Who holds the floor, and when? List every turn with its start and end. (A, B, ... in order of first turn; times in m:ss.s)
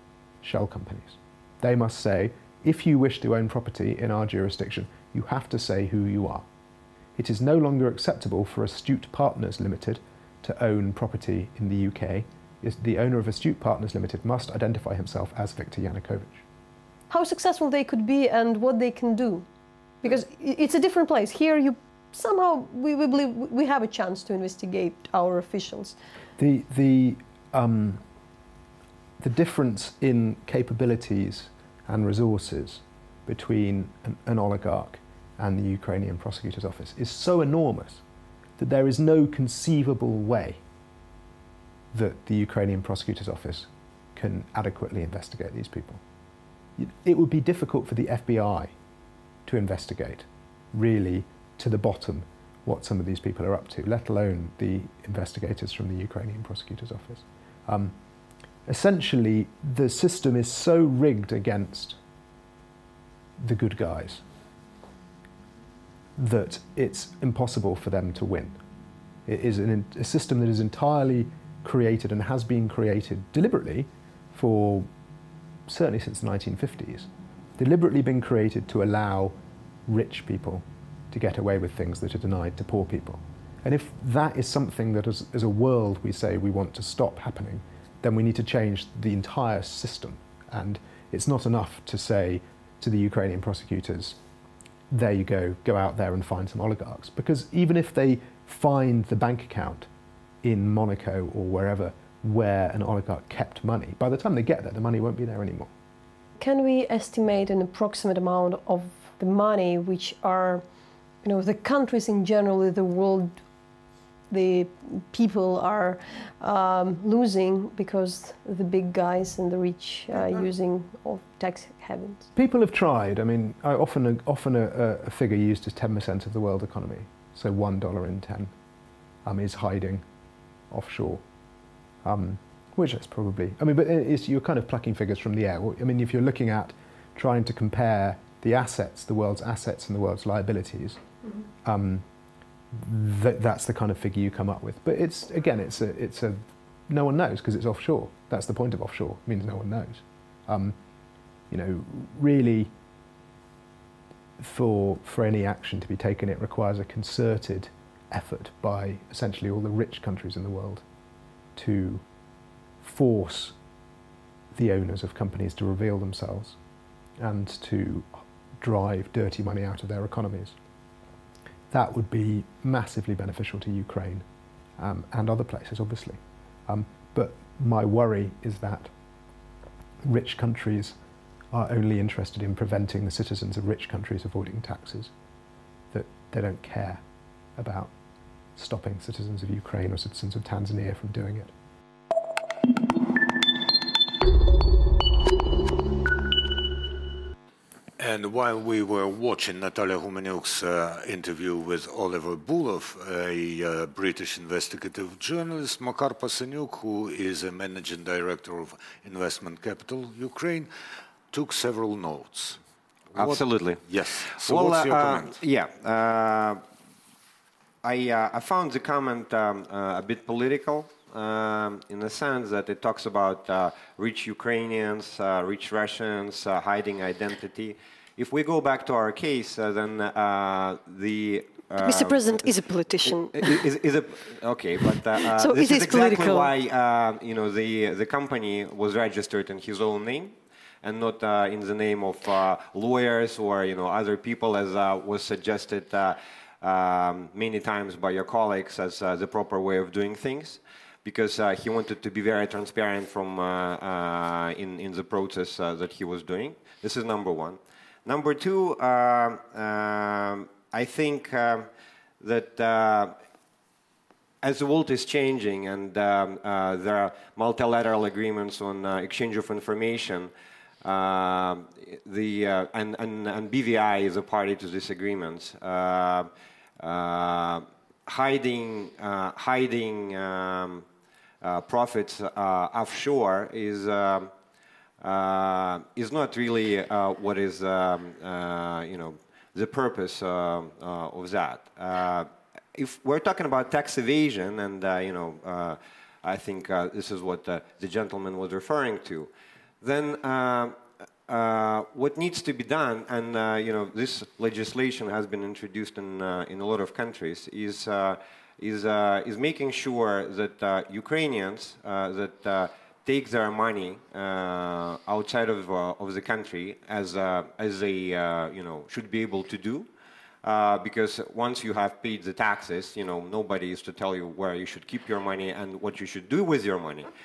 0:00.4-0:06.5 A
0:07.2-0:16.4 A
0:17.1-0:19.5 B
0:20.0-0:26.0 B
0:26.4-0:28.0 A
0:29.2-0:38.0 A
0:38.6-0:40.6 A
0:41.9-0:46.0 A
0:46.8-0:48.7 A
0:49.4-0:57.9 A
0:58.6-1:02.0 A
1:03.4-1:04.2 A
1:06.2-1:08.6 A
1:09.2-1:14.9 A
1:15.7-1:19.3 A
1:19.9-1:34.2 A
1:34.9-1:39.9 A
1:40.4-1:45.7 A
1:46.4-1:50.6 B
1:51.2-1:53.4 B
1:54.3-2:02.3 B
2:00.2-2:00.4 A
2:02.4-2:08.5 A
2:09.2-2:10.0 A
2:10.7-2:11.2 A
2:12.0-2:21.0 A
2:21.6-2:22.0 A
2:22.7-2:30.8 A
2:31.5-2:32.7 A
2:34.4-2:40.8 A
2:41.6-2:42.0 A
2:42.8-2:43.6 A
2:44.5-2:46.6 A
2:47.2-2:50.5 A
2:51.7-2:54.2 A
2:54.8-2:58.9 A
3:00.0-3:01.0 A
3:01.5-3:05.1 A
3:05.9-3:07.0 A
3:07.6-3:07.9 A
3:08.5-3:11.5 A
3:18.0-3:30.7 C
3:31.3-3:32.6 C
3:33.2-3:33.8 D
3:33.2-3:35.4 C
3:34.4-3:36.6 D
3:37.8-3:52.5 D
3:51.8-3:53.6 B
3:53.0-4:21.7 D
3:55.2-3:56.5 B
4:22.2-4:23.1 D
4:24.4-4:30.3 D
4:30.8-4:36.3 D
4:36.8-4:40.8 D
4:41.4-4:44.3 D
4:45.0-4:59.3 D
4:59.8-5:00.8 D
5:01.3-5:19.9 D
5:20.4-5:27.1 D